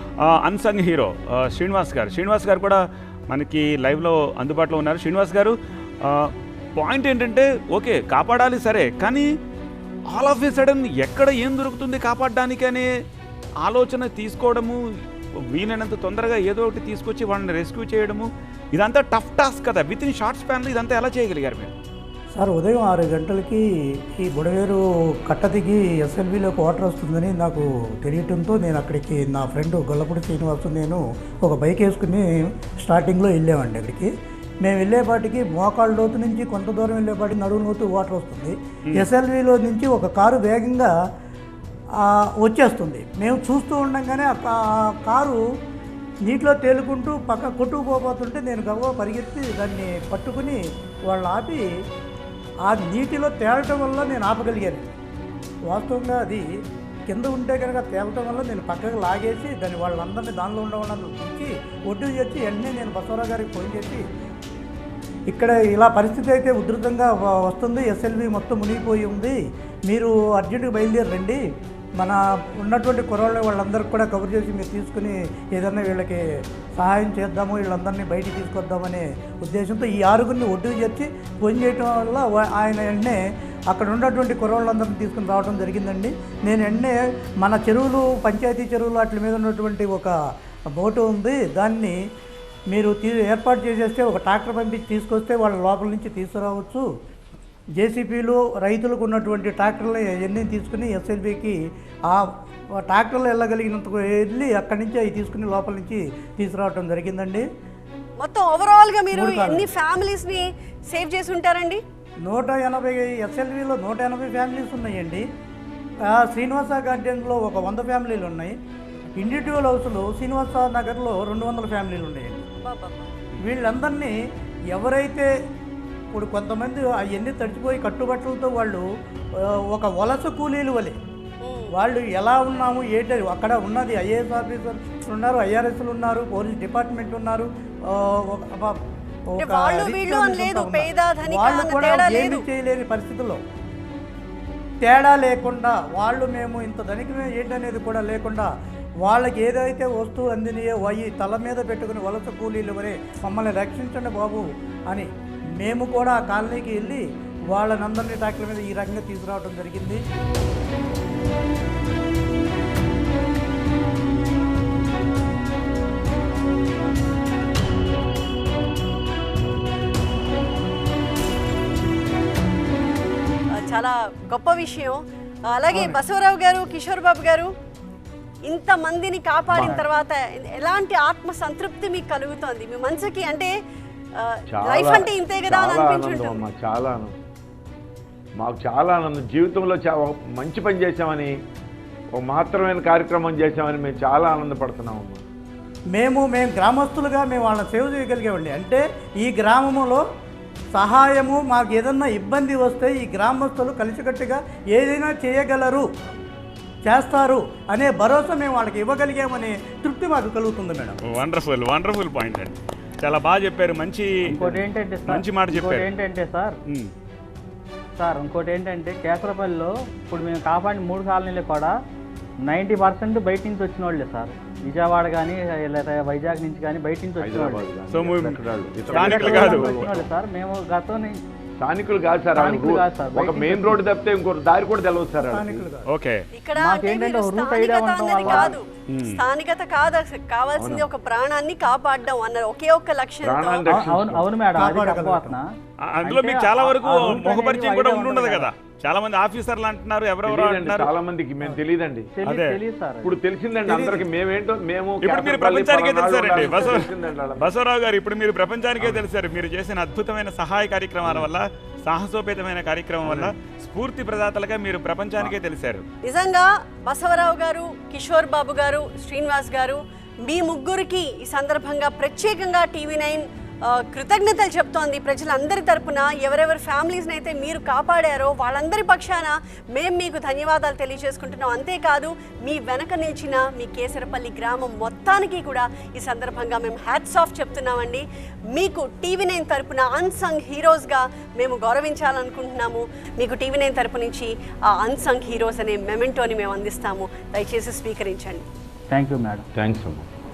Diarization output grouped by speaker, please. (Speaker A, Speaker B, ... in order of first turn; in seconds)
Speaker A: 0.2-9.3, 10.1-12.9, 13.6-14.8, 15.5-21.7, 211.1-214.3, 215.0-215.9, 227.9-228.4, 228.9-229.8, 235.9-236.2, 238.9-239.2, 245.8-250.9, 252.2-252.6, 255.0-265.8
Speaker B: 22.3-34.1, 34.6-40.9, 42.0-45.4, 46.2-51.6, 52.6-54.9, 55.7-56.5, 57.1-64.0, 65.3-71.4, 72.0-76.2, 76.8-83.2, 83.7-90.1, 90.7-92.0, 92.7-96.9, 97.8-101.6, 102.1-107.4, 109.1-109.7, 112.2-115.2, 116.1-118.5, 119.2-122.5, 123.4-124.1, 124.7-125.3, 126.1-128.8, 129.4-131.0, 131.7-138.8, 139.3-143.4, 144.8-148.5, 149.0-160.0, 195.9-200.0, 200.7-205.9, 206.8-211.0, 235.2-235.9, 244.5-245.4, 253.7-254.1
Speaker C: 108.2-111.8, 122.6-123.1, 131.4-131.7, 139.4-142.4, 173.6-175.0, 175.5-177.5, 178.5-183.5, 184.2-186.4, 236.3-243.7, 266.0-298.4
Speaker D: 179.5-179.8, 184.5-187.2, 188.4-191.3, 192.2-195.2, 214.3-214.7, 227.2-230.1, 231.6-235.7, 238.2-238.5, 240.6-240.9, 243.2-244.3, 250.2-252.1, 253.0-257.5, 261.0-261.3, 263.0-263.3, 299.6-300.1
Speaker E: 214.3-216.6, 218.0-221.8, 222.4-227.6, 228.8-231.2, 232.3-233.8, 236.6-238.6, 243.7-248.5, 252.2-253.2, 298.9-299.4